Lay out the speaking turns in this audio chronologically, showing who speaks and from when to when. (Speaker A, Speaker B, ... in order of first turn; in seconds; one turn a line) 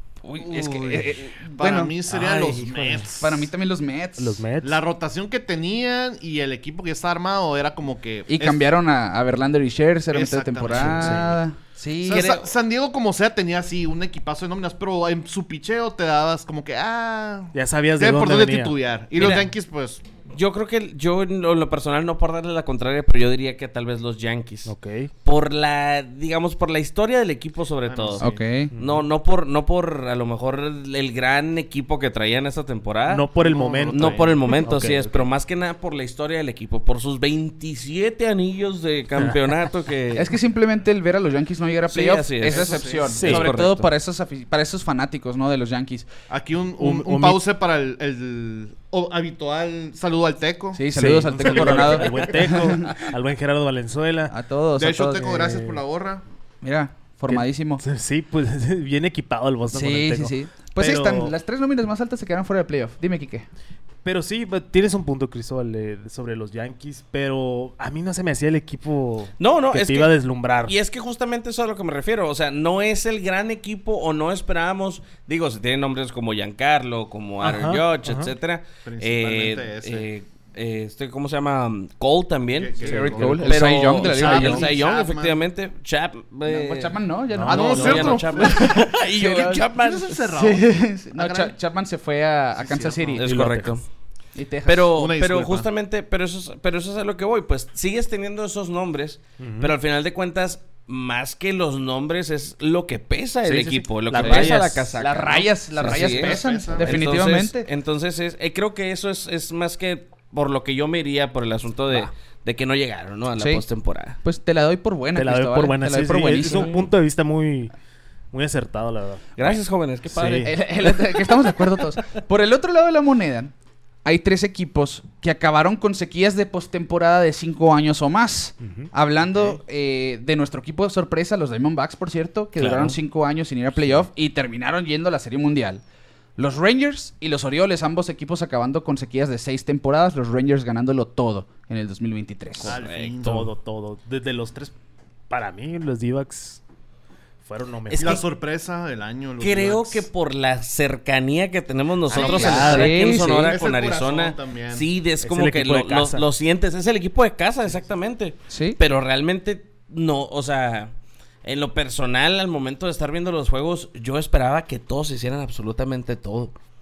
Speaker A: 0.2-1.9
Speaker B: 0.4-3.5
Speaker C: 2.1-3.0
Speaker A: 3.2-4.4
Speaker C: 4.2-4.8
Speaker B: 4.6-8.7
Speaker A: 8.3-12.3
Speaker B: 10.1-11.4
Speaker C: 10.7-11.3
Speaker B: 12.0-20.0
Speaker D: 12.1-12.5
Speaker C: 17.5-18.8
Speaker D: 19.1-19.5
Speaker D: 20.3-24.7
Speaker C: 24.6-25.1
Speaker D: 25.2-33.3
Speaker B: 27.9-28.4
Speaker A: 28.2-28.7
Speaker C: 28.7-29.0
Speaker C: 33.1-35.3
Speaker B: 33.4-34.6
Speaker D: 33.9-40.3
Speaker A: 40.1-46.1
Speaker D: 41.9-43.9
Speaker B: 42.4-43.2
Speaker C: 43.1-43.5
Speaker B: 46.3-52.7
Speaker C: 46.8-47.4
Speaker A: 50.7-52.9
Speaker C: 50.9-54.3
Speaker A: 54.3-55.5
Speaker B: 54.8-56.2
Speaker C: 55.3-55.8
Speaker A: 56.6-57.8
Speaker C: 57.3-61.3
Speaker A: 59.7-63.5
Speaker C: 64.0-70.7
Speaker D: 69.4-70.1
Speaker D: 70.6-90.3
Speaker C: 77.4-78.3
Speaker B: 78.8-80.0
Speaker B: 82.5-83.5
Speaker A: 82.8-84.7
Speaker C: 83.0-83.5
Speaker B: 84.0-85.4
Speaker A: 86.5-89.7
Speaker C: 87.3-88.2
Speaker B: 87.5-88.9
Speaker B: 89.6-91.5
Speaker A: 90.3-93.3
Speaker B: 92.5-93.2
Speaker D: 93.2-93.8
Speaker C: 93.2-93.7
Speaker A: 94.3-94.9
Speaker D: 94.7-114.2
Speaker B: 94.9-95.7
Speaker C: 99.4-99.7
Speaker C: 103.4-104.9
Speaker A: 104.2-107.7
Speaker B: 105.8-107.2
Speaker A: 113.4-113.6
Speaker A: 114.2-116.7
Speaker C: 115.2-117.7
Speaker D: 116.4-116.8
Speaker C: 118.3-119.6
Speaker D: 119.4-121.8
Speaker C: 120.1-120.5
Speaker A: 120.4-123.5
Speaker A: 124.0-135.8
Speaker C: 128.6-128.9
Speaker D: 132.6-132.9
Speaker C: 133.8-134.0
Speaker A: 136.4-142.8
Speaker D: 142.6-143.2
Speaker B: 142.6-143.5
Speaker C: 143.2-144.7
Speaker C: 145.3-146.6
Speaker C: 147.4-148.2
Speaker D: 147.9-148.2
Speaker B: 148.0-150.1
Speaker D: 149.4-160.9
Speaker C: 152.1-153.0
Speaker B: 152.1-154.8
Speaker A: 152.1-153.5
Speaker C: 155.2-156.3
Speaker A: 158.5-158.8
Speaker D: 161.4-166.5